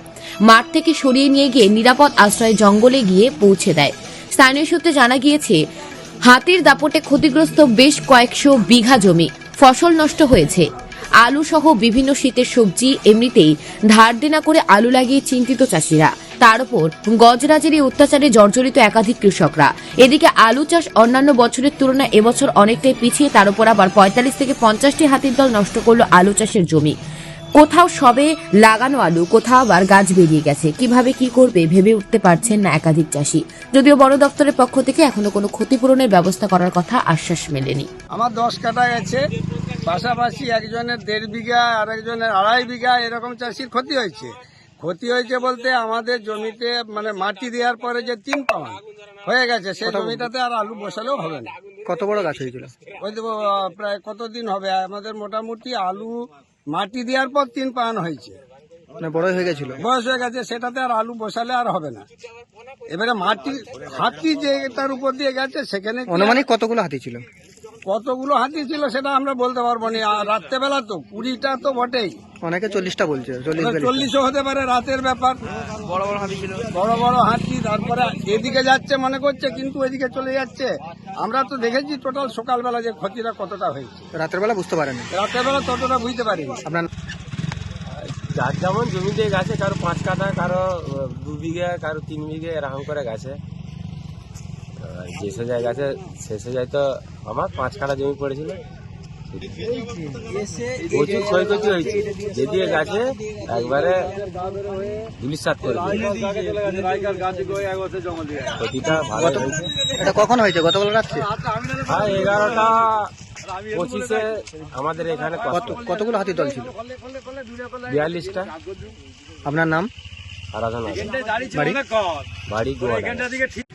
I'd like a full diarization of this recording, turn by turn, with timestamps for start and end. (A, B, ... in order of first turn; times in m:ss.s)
0:00.4-0:05.6 A
0:06.2-0:10.7 A
0:11.2-0:26.9 A
0:27.6-0:37.9 A
0:38.2-0:39.2 B
0:39.8-0:51.5 B
0:49.8-0:50.3 C
0:51.8-0:52.7 C
0:53.0-0:56.1 B
0:56.7-0:58.4 B
0:59.0-0:59.8 C
0:59.8-1:02.0 B
1:02.9-1:06.4 B
1:06.1-1:07.2 C
1:07.9-1:12.1 B
1:12.4-1:14.1 C
1:13.6-1:15.4 B
1:16.7-1:24.1 B
1:24.1-1:25.1 C
1:25.1-1:26.6 B
1:27.9-1:33.4 D
1:34.8-1:38.6 D
1:39.3-1:39.8 D
1:40.9-1:44.1 D
1:45.2-1:46.7 D
1:48.6-1:49.7 D
1:49.1-1:51.3 C
1:51.6-1:55.8 D
1:55.5-1:56.8 C
1:57.6-1:58.5 D
1:59.4-1:59.9 C
2:00.5-2:01.3 D
2:01.4-2:01.8 C
2:02.5-2:03.5 D